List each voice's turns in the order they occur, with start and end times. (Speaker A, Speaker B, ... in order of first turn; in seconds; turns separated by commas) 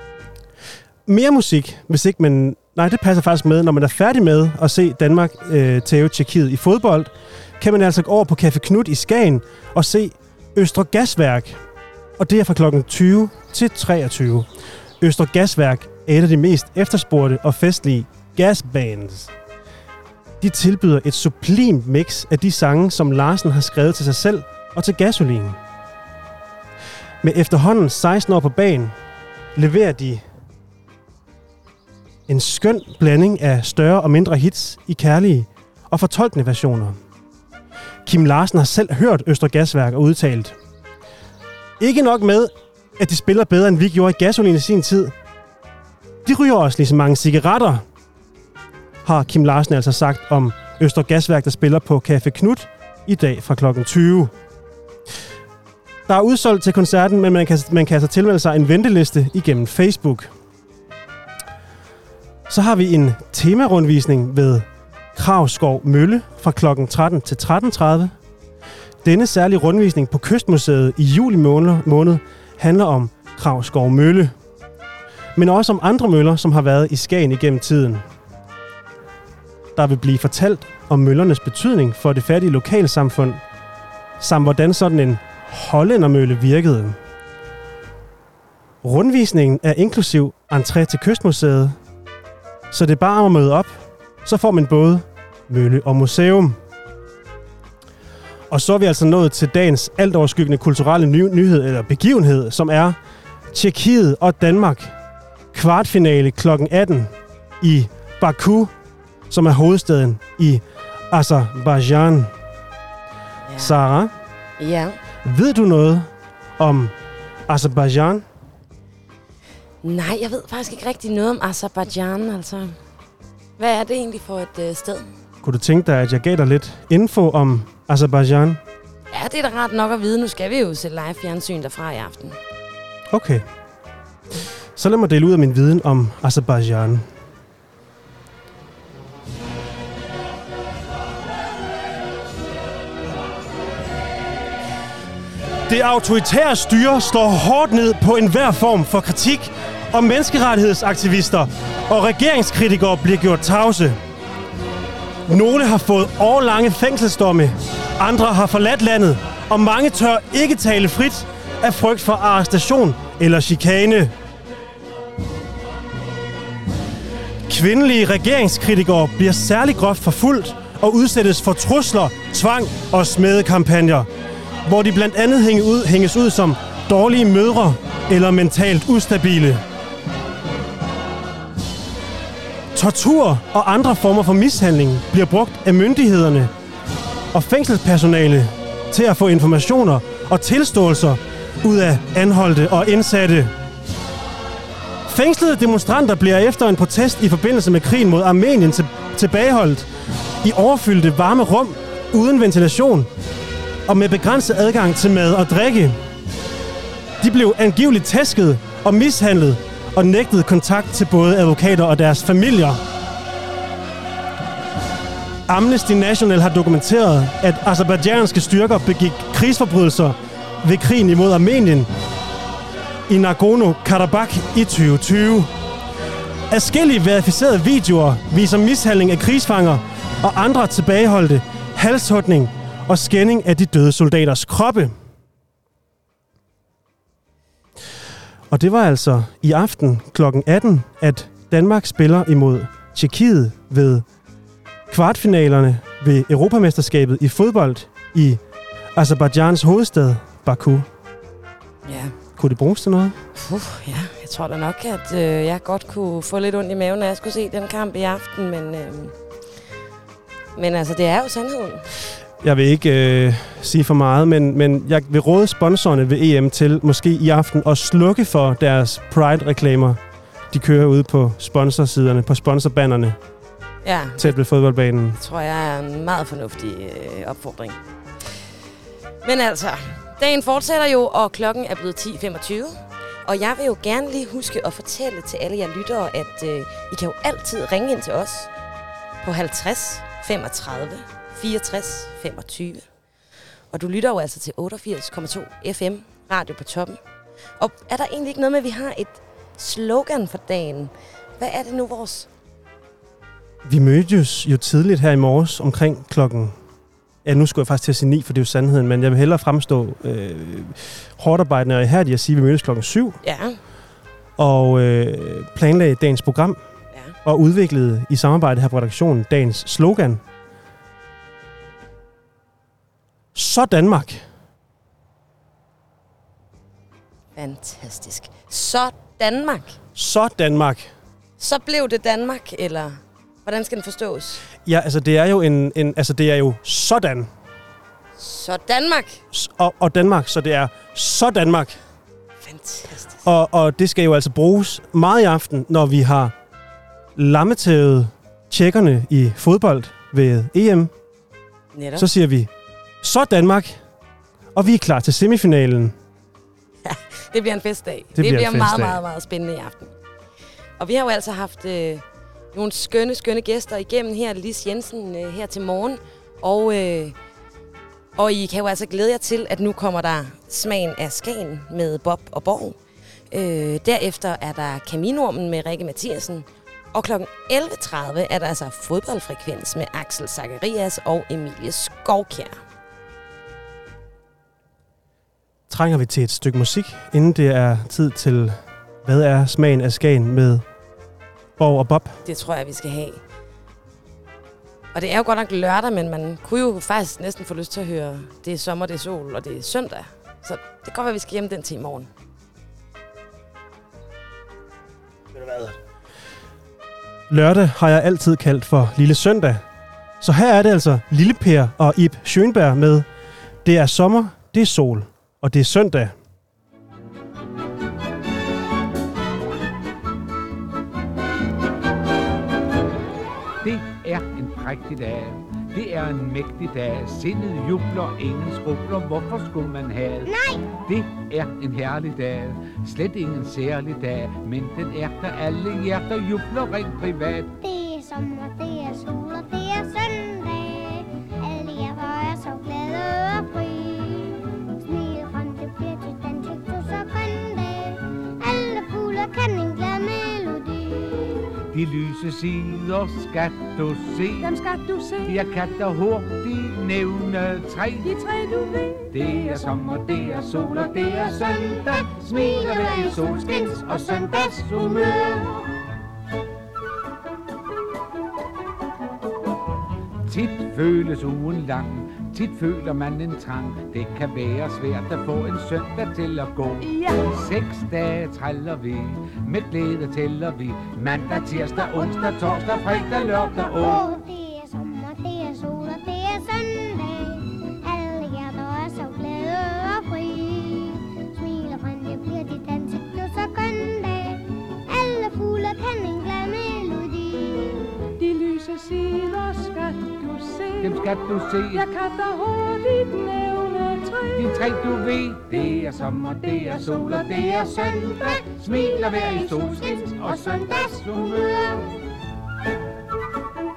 Speaker A: 1.1-11.6, Speaker A: 12.2-14.5, Speaker A: 15.0-19.3, Speaker A: 20.4-25.6, Speaker A: 27.2-28.9, Speaker A: 29.6-30.2, Speaker A: 32.3-37.0, Speaker A: 38.0-40.5, Speaker A: 41.8-45.1, Speaker A: 46.2-47.8, Speaker A: 49.0-54.3, Speaker A: 56.1-60.3, Speaker A: 62.5-68.1, Speaker A: 69.0-74.3, Speaker A: 75.3-78.0, Speaker A: 79.8-83.4, Speaker A: 84.2-87.0, Speaker A: 88.8-91.8, Speaker A: 92.7-96.6, Speaker A: 98.5-103.0, Speaker A: 103.5-104.9, Speaker A: 105.5-108.7, Speaker A: 109.3-112.3, Speaker B: 113.5-113.8, Speaker A: 113.6-114.1, Speaker B: 114.6-115.0, Speaker A: 115.2-116.9, Speaker A: 117.5-118.2, Speaker B: 119.8-122.8, Speaker B: 123.6-125.1, Speaker A: 125.4-128.6, Speaker B: 129.1-132.4, Speaker A: 133.1-133.4, Speaker A: 134.8-137.1, Speaker A: 145.7-154.0, Speaker A: 155.3-164.1, Speaker A: 167.5-174.1, Speaker A: 174.6-179.6, Speaker A: 182.7-186.5, Speaker A: 187.3-193.5, Speaker A: 195.1-199.9, Speaker A: 200.4-203.1, Speaker A: 203.9-206.0, Speaker A: 207.2-212.8, Speaker A: 215.5-221.9, Speaker A: 223.1-225.5, Speaker A: 226.5-234.9, Speaker A: 238.5-244.0, Speaker A: 244.9-248.4, Speaker A: 248.9-250.9, Speaker B: 251.8-252.1, Speaker A: 252.3-253.2, Speaker B: 253.3-259.1, Speaker B: 260.5-261.8, Speaker A: 262.4-270.0, Speaker A: 270.5-273.2, Speaker B: 273.8-274.4, Speaker A: 274.2-275.2, Speaker B: 275.2-277.8, Speaker B: 279.2-288.5, Speaker B: 289.2-292.9, Speaker B: 293.7-297.0, Speaker B: 297.6-302.3, Speaker A: 303.6-306.6, Speaker A: 307.2-313.2, Speaker B: 313.2-313.6, Speaker A: 314.4-316.6, Speaker A: 317.2-320.2, Speaker A: 323.3-324.2, Speaker B: 327.3-329.8, Speaker A: 329.9-330.9, Speaker B: 331.4-334.4, Speaker A: 334.6-337.3, Speaker B: 338.2-339.2, Speaker A: 339.3-341.8, Speaker B: 342.4-343.2, Speaker A: 343.2-346.3, Speaker A: 347.1-350.9, Speaker B: 351.7-352.1, Speaker A: 351.9-352.5, Speaker A: 353.0-353.8, Speaker A: 354.5-355.9, Speaker B: 356.8-359.9, Speaker A: 358.1-359.0, Speaker B: 360.8-367.1, Speaker B: 368.1-372.8, Speaker B: 373.3-382.6, Speaker A: 385.7-390.6, Speaker A: 391.6-392.2, Speaker B: 392.2-393.2, Speaker B: 394.9-402.1, Speaker A: 407.3-409.6, Speaker A: 410.2-413.1, Speaker A: 413.6-416.1, Speaker C: 423.6-430.3, Speaker D: 430.2-430.7, Speaker C: 430.8-437.5, Speaker D: 437.5-451.3, Speaker C: 451.7-454.5, Speaker E: 454.4-455.8, Speaker C: 455.2-458.1, Speaker E: 458.0-465.4, Speaker C: 459.1-465.4, Speaker C: 470.2-484.0, Speaker E: 476.8-477.3, Speaker D: 483.4-497.8, Speaker E: 498.2-511.4, Speaker C: 500.8-501.9, Speaker C: 504.3-511.8